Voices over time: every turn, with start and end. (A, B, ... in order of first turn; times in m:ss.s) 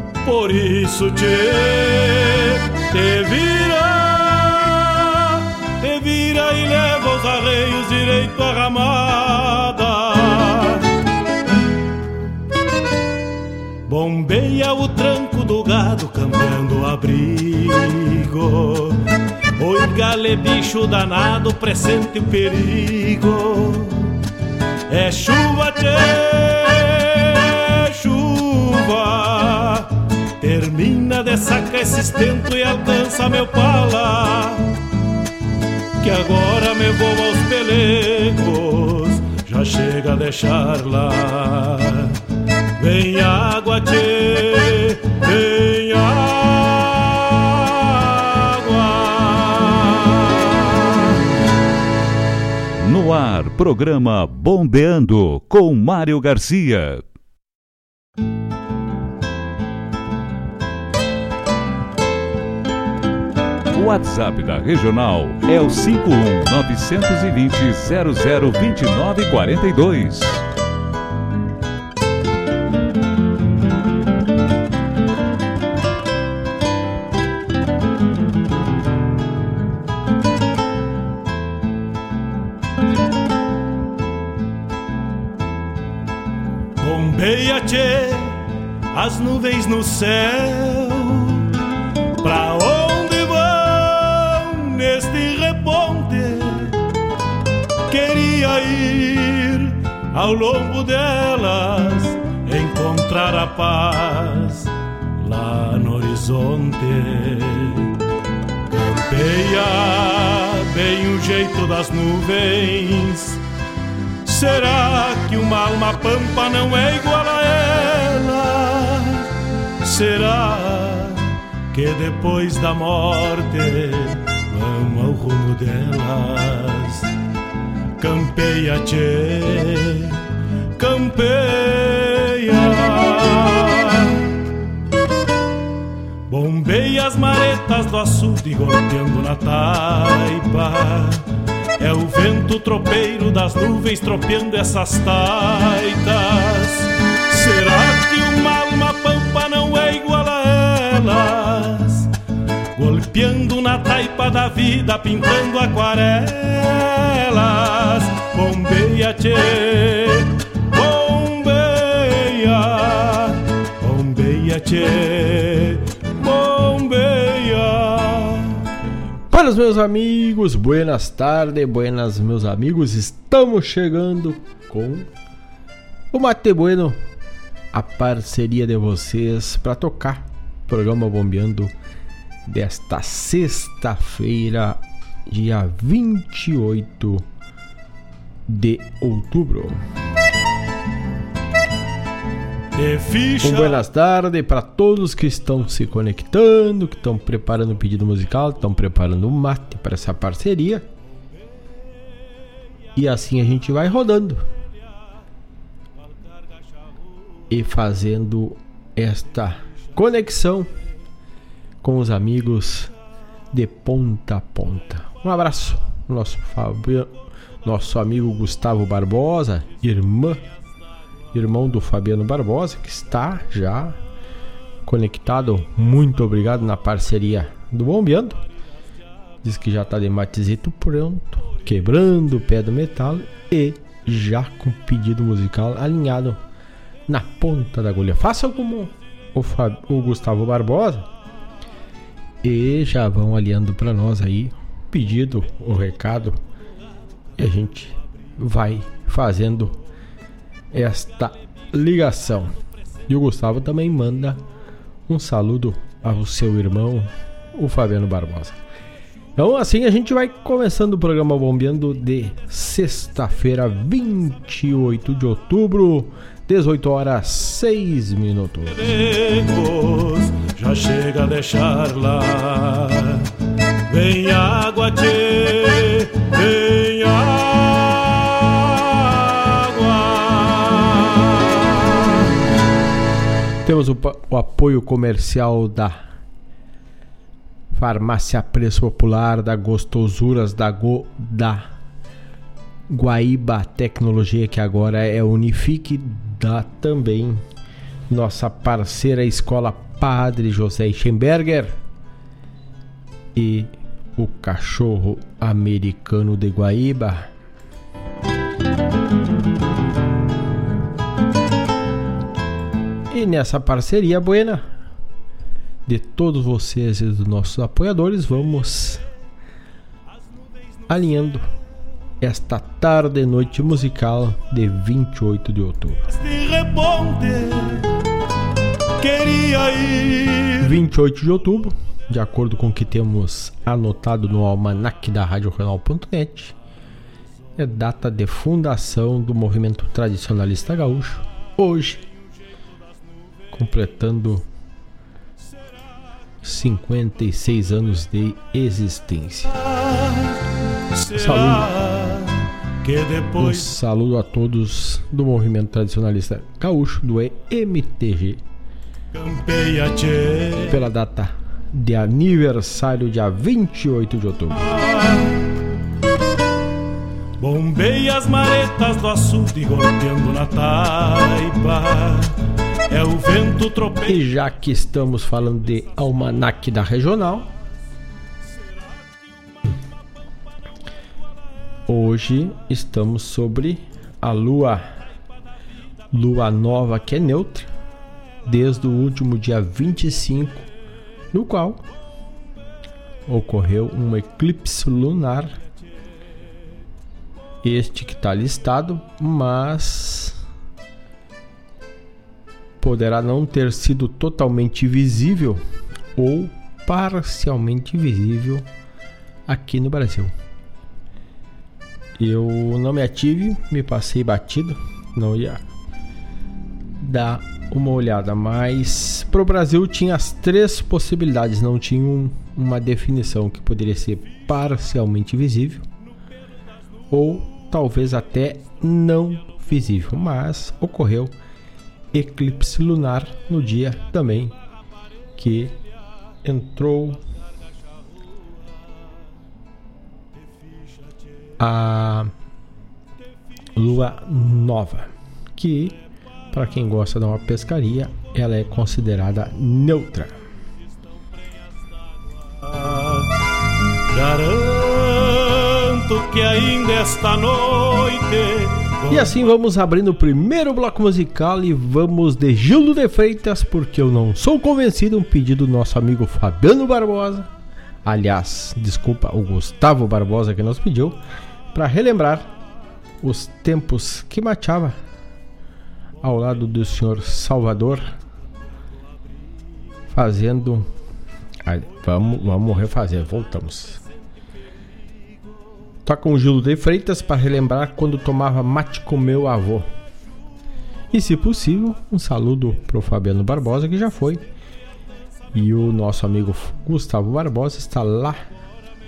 0:00.2-0:10.8 A
0:13.9-0:19.0 A
0:19.6-0:24.1 A
0:24.9-0:29.9 A
0:30.4-0:34.7 A
0:36.0-0:42.1 A
0:42.8-0:50.9 A
0:52.8-0:57.0 B
1:03.7-1:10.4 B
1:26.8-1:28.4 A
1:28.9-1:31.5 A
1:32.2-1:36.8 A
1:37.9-1:47.9 A
1:49.1-1:53.4 A
1:54.3-1:59.3 A
1:59.8-2:07.1 A
2:08.0-2:10.2 A
2:10.8-2:14.1 A
2:16.3-2:21.2 A
2:21.8-2:32.1 A
2:32.8-2:48.6 A
2:49.3-2:55.1 C
2:56.1-2:57.0 C
2:57.7-3:01.7 C
3:02.5-3:07.3 C
3:08.5-3:09.8 C
3:12.8-3:13.8 A
3:13.4-3:20.9 C
3:23.0-3:24.5 C
3:27.5-3:30.7 C
3:31.8-3:32.9 C
3:33.5-3:40.4 C
3:41.3-3:44.0 C
3:44.8-3:48.4 C
3:49.4-3:56.4 C
3:57.1-4:01.1 C
4:02.4-4:06.4 C
4:07.4-4:09.8 C
4:10.7-4:12.5 C
4:13.1-4:14.4 C
4:15.1-4:18.6 C
4:19.4-4:28.8 C
4:28.8-4:33.2 A
4:33.9-4:42.2 A
4:43.6-4:46.0 C
4:47.7-4:51.7 C
4:52.9-4:57.4 C
4:58.1-5:01.8 C
5:03.4-5:07.3 C
5:13.1-5:14.7 C
5:15.9-5:19.0 C
5:20.9-5:21.5 C
5:22.2-5:26.0 C
5:26.1-5:27.9 A
5:29.0-5:30.7 A
5:30.6-5:36.6 C
5:37.6-5:42.0 C
5:43.5-5:44.5 C
5:46.4-5:49.5 C
5:49.6-5:50.4 A
5:50.9-5:53.7 A
5:51.2-5:51.7 C
5:53.4-5:58.4 C
5:59.2-6:00.8 A
6:00.7-6:04.7 C
6:07.4-6:12.4 A
6:12.9-6:14.2 A
6:14.1-6:17.5 C
6:21.9-6:24.8 C
6:26.1-6:27.7 C
6:28.4-6:30.7 C
6:31.3-6:31.8 C
6:33.3-6:35.6 C
6:37.6-6:40.4 C
6:42.8-6:45.6 C
6:46.2-6:48.7 C
6:49.5-6:50.3 C
6:52.2-6:55.6 C
6:57.0-7:05.9 C
7:07.1-7:11.4 C
7:12.1-7:14.6 C
7:15.4-7:15.8 C
7:16.4-7:17.2 C
7:21.6-7:22.3 C
7:23.8-7:26.0 C
7:26.5-7:30.3 C
7:32.7-7:33.3 A
7:34.1-7:39.4 A
7:39.1-7:47.5 C
7:48.0-7:51.2 C
7:51.7-7:52.5 C
7:53.2-7:55.0 C
7:56.2-7:58.2 C
8:00.1-8:00.9 C
8:01.6-8:04.0 C
8:06.0-8:09.9 C
8:11.1-8:14.4 C
8:15.5-8:18.4 C